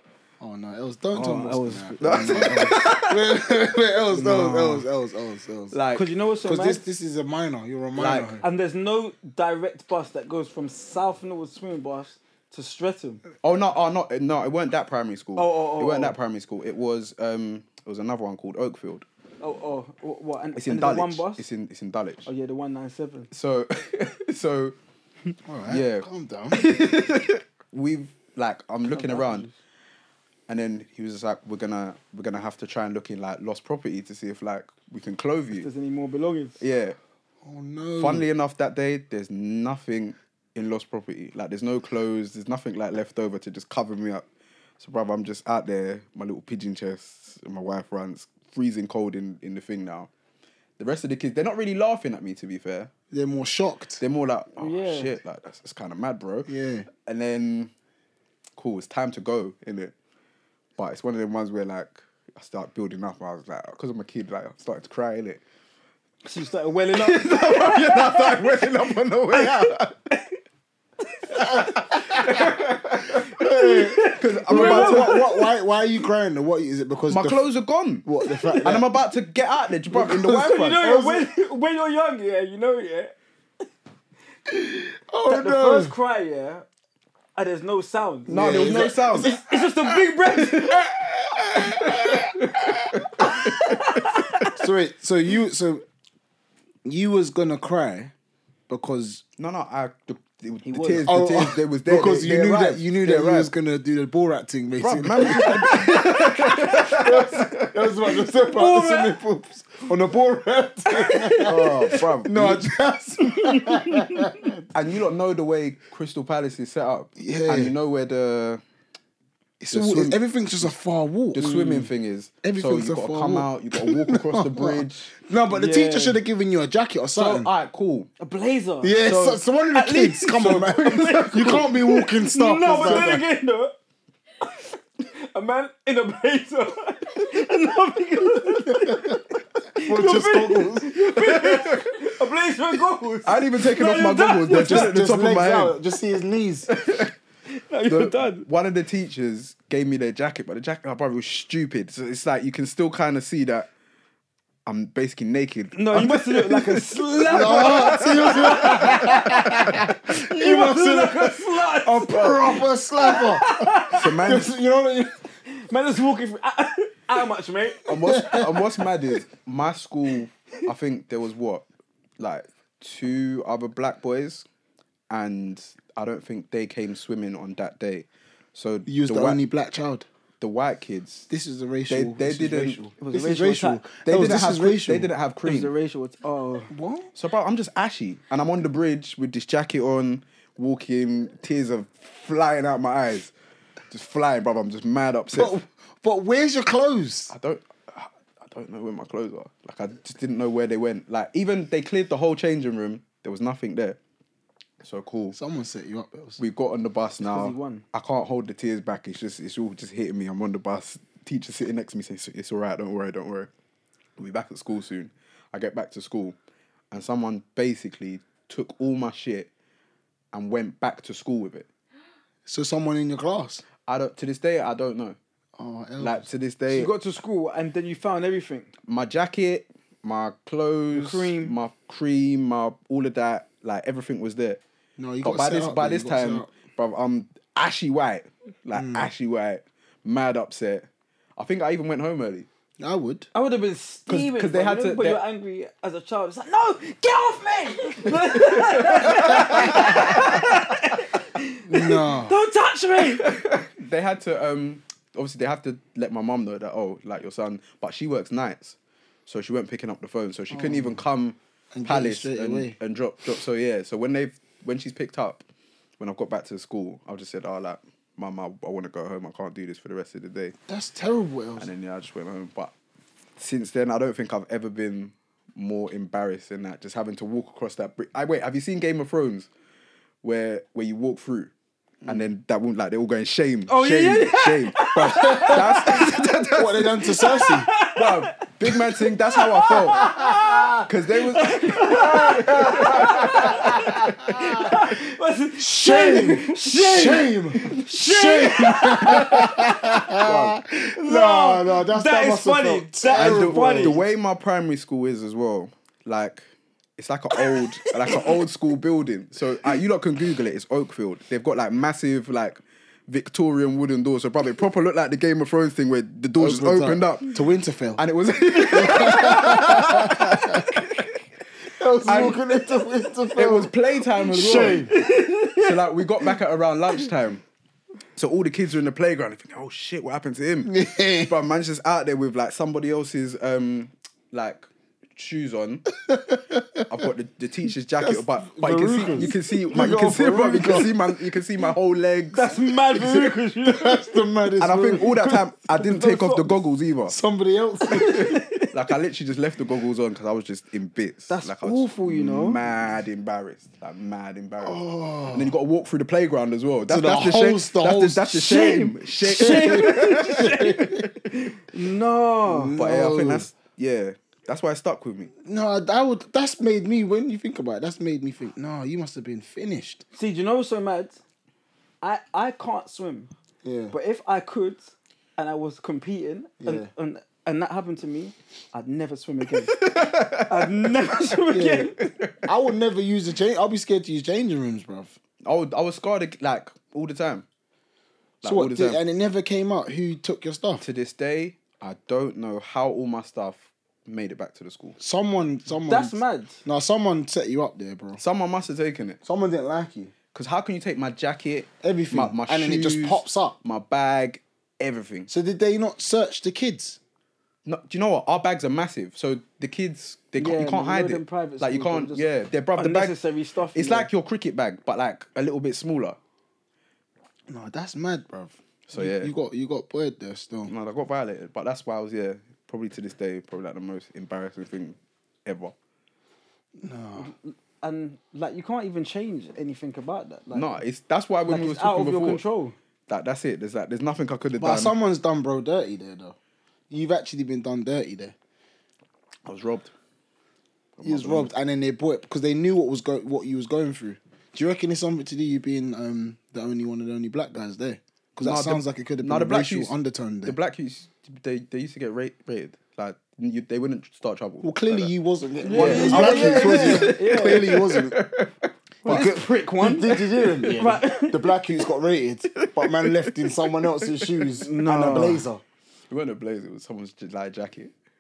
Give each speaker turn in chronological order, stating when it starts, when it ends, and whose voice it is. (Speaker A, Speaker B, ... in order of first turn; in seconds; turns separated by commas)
Speaker A: 0.4-5.8, Speaker B: 1.1-2.8, Speaker C: 2.0-3.4, Speaker B: 4.1-4.9, Speaker C: 5.7-6.1, Speaker B: 5.9-6.8, Speaker A: 6.4-8.4, Speaker C: 8.0-8.4, Speaker B: 8.4-13.2, Speaker C: 13.4-19.1, Speaker B: 15.4-16.2, Speaker B: 19.4-21.4, Speaker C: 20.6-22.3, Speaker B: 22.2-23.3, Speaker C: 23.3-24.8, Speaker A: 25.4-26.8, Speaker C: 25.7-29.5, Speaker B: 28.9-29.6, Speaker C: 30.5-35.7, Speaker B: 35.6-36.6, Speaker C: 36.6-37.0, Speaker A: 37.5-38.3, Speaker C: 38.0-44.3, Speaker C: 44.8-50.1, Speaker C: 50.8-52.9, Speaker A: 53.1-54.0, Speaker C: 54.0-57.7, Speaker B: 54.6-55.2, Speaker A: 56.5-56.9, Speaker C: 58.6-59.9, Speaker C: 60.8-65.4, Speaker B: 66.2-68.7, Speaker C: 66.9-69.9, Speaker B: 69.3-70.3, Speaker B: 71.0-75.5, Speaker A: 71.4-72.5, Speaker C: 72.1-73.3, Speaker A: 73.4-77.4, Speaker C: 74.0-75.3, Speaker C: 77.1-78.1, Speaker A: 78.0-78.9, Speaker B: 78.4-78.7, Speaker C: 78.6-80.8, Speaker A: 79.9-81.3, Speaker B: 80.4-83.2, Speaker A: 84.5-85.9, Speaker B: 85.3-86.7, Speaker B: 87.4-90.8, Speaker C: 88.3-89.3, Speaker A: 88.3-90.0, Speaker C: 90.4-90.9, Speaker A: 90.6-93.4, Speaker C: 91.7-94.5, Speaker B: 93.2-94.6, Speaker A: 94.5-95.8, Speaker A: 96.8-98.1, Speaker A: 98.7-99.2, Speaker C: 99.4-103.5, Speaker B: 100.7-101.2, Speaker A: 101.0-114.6, Speaker C: 104.8-108.0, Speaker B: 105.4-106.9, Speaker B: 108.2-109.2, Speaker B: 110.9-112.0, Speaker C: 111.4-112.7, Speaker B: 113.2-114.5, Speaker C: 114.7-118.6, Speaker A: 117.2-117.8, Speaker A: 119.6-121.5, Speaker C: 119.7-120.7, Speaker C: 121.3-125.1, Speaker B: 121.4-121.9, Speaker A: 122.4-127.5, Speaker B: 125.5-126.2, Speaker C: 127.2-128.1, Speaker B: 128.2-133.8, Speaker A: 128.8-133.2, Speaker C: 129.1-129.3, Speaker C: 130.4-131.8, Speaker C: 132.8-133.1, Speaker B: 134.4-144.9, Speaker A: 138.7-139.2, Speaker A: 139.8-140.9, Speaker C: 141.1-142.0, Speaker C: 143.2-145.8, Speaker A: 144.5-146.7, Speaker C: 146.7-147.1, Speaker B: 147.5-148.5, Speaker C: 147.9-153.7, Speaker C: 154.7-159.9, Speaker B: 155.8-164.2, Speaker A: 157.3-165.2, Speaker C: 162.1-162.6, Speaker C: 163.9-164.5, Speaker B: 165.5-168.7, Speaker C: 167.8-171.7, Speaker A: 168.0-168.9, Speaker C: 172.2-174.4, Speaker C: 175.1-179.4, Speaker A: 178.9-180.1, Speaker C: 180.4-181.3, Speaker A: 181.3-185.1, Speaker C: 181.9-182.8, Speaker B: 183.0-183.9, Speaker C: 184.0-185.7, Speaker B: 185.4-186.7, Speaker A: 186.7-187.1, Speaker C: 187.2-193.3, Speaker C: 193.9-195.6, Speaker A: 195.3-197.3, Speaker C: 197.3-204.0, Speaker C: 204.8-205.4, Speaker A: 205.3-206.4, Speaker C: 206.4-213.5, Speaker B: 207.2-207.8, Speaker C: 214.2-216.4, Speaker C: 216.9-219.5, Speaker C: 220.3-221.7, Speaker A: 222.5-223.6, Speaker C: 223.9-225.2, Speaker A: 225.6-226.3, Speaker C: 226.0-226.9, Speaker B: 226.7-228.7, Speaker C: 228.9-234.6, Speaker B: 230.9-231.5, Speaker A: 235.0-236.5, Speaker C: 235.2-242.5, Speaker A: 238.7-239.1, Speaker A: 242.8-243.3, Speaker B: 243.3-253.4, Speaker C: 244.1-245.2, Speaker C: 248.1-250.6, Speaker A: 249.6-249.9, Speaker A: 251.7-252.3, Speaker C: 253.1-265.4, Speaker A: 260.5-261.0, Speaker A: 261.7-262.8, Speaker C: 266.0-270.6, Speaker A: 270.7-271.7, Speaker C: 271.6-272.7, Speaker C: 273.4-279.5, Speaker C: 280.2-281.5, Speaker C: 282.1-286.9, Speaker B: 283.7-286.4, Speaker A: 285.1-287.7, Speaker B: 287.0-300.2, Speaker C: 287.9-290.1, Speaker A: 289.8-290.9, Speaker C: 290.8-294.7, Speaker A: 291.9-294.8, Speaker A: 295.6-304.1, Speaker C: 299.1-299.5, Speaker C: 300.1-300.6, Speaker B: 300.9-304.0, Speaker C: 303.1-306.4, Speaker C: 307.0-317.4, Speaker B: 307.8-308.3, Speaker A: 316.4-318.0, Speaker C: 318.0-321.0, Speaker B: 318.6-321.1, Speaker A: 318.7-320.6, Speaker A: 321.7-324.9, Speaker C: 322.1-322.4, Speaker C: 323.4-325.0, Speaker B: 324.9-325.8, Speaker C: 325.5-327.4, Speaker C: 328.2-335.9, Speaker A: 330.6-331.4, Speaker A: 336.0-337.1, Speaker C: 336.9-342.7, Speaker A: 338.0-340.9, Speaker B: 342.3-344.4, Speaker A: 342.9-345.1, Speaker C: 344.6-347.2, Speaker B: 345.0-346.6, Speaker A: 347.1-348.4, Speaker B: 347.9-348.7, Speaker C: 348.2-361.1, Speaker B: 351.3-352.6, Speaker A: 354.6-355.5, Speaker A: 356.9-358.6, Speaker B: 358.3-362.8, Speaker A: 359.2-361.1, Speaker A: 362.5-363.5, Speaker C: 362.8-365.3, Speaker A: 365.4-370.0, Speaker B: 370.1-371.2, Speaker B: 372.0-373.3, Speaker A: 373.6-373.9, Speaker B: 373.9-379.8, Speaker A: 376.6-376.9, Speaker C: 379.6-381.3, Speaker B: 380.5-382.2, Speaker A: 381.5-381.9, Speaker C: 382.2-382.5, Speaker A: 382.4-385.1, Speaker C: 385.4-387.5, Speaker C: 388.4-389.0, Speaker A: 388.4-390.8, Speaker C: 390.8-395.0, Speaker A: 395.0-398.2, Speaker B: 395.9-396.6, Speaker C: 398.2-399.2, Speaker A: 399.2-400.1, Speaker C: 400.3-405.3, Speaker A: 401.8-403.6, Speaker A: 405.3-407.0, Speaker C: 407.7-413.2, Speaker B: 410.4-414.1, Speaker C: 413.7-416.2, Speaker A: 417.5-420.7, Speaker C: 418.9-419.3, Speaker C: 420.7-425.8, Speaker A: 426.8-427.3, Speaker B: 427.2-430.8, Speaker C: 430.5-432.4, Speaker B: 431.5-432.8, Speaker C: 433.1-434.9, Speaker A: 434.6-436.4, Speaker A: 436.9-438.4, Speaker C: 439.5-439.9, Speaker C: 441.0-441.5, Speaker A: 441.0-450.6, Speaker C: 448.4-449.9, Speaker C: 450.4-455.1, Speaker A: 454.6-458.2, Speaker B: 455.6-457.8, Speaker C: 455.7-459.4, Speaker A: 459.0-465.6, Speaker B: 459.1-461.5, Speaker C: 462.6-465.5, Speaker B: 464.6-465.5, Speaker C: 466.1-467.9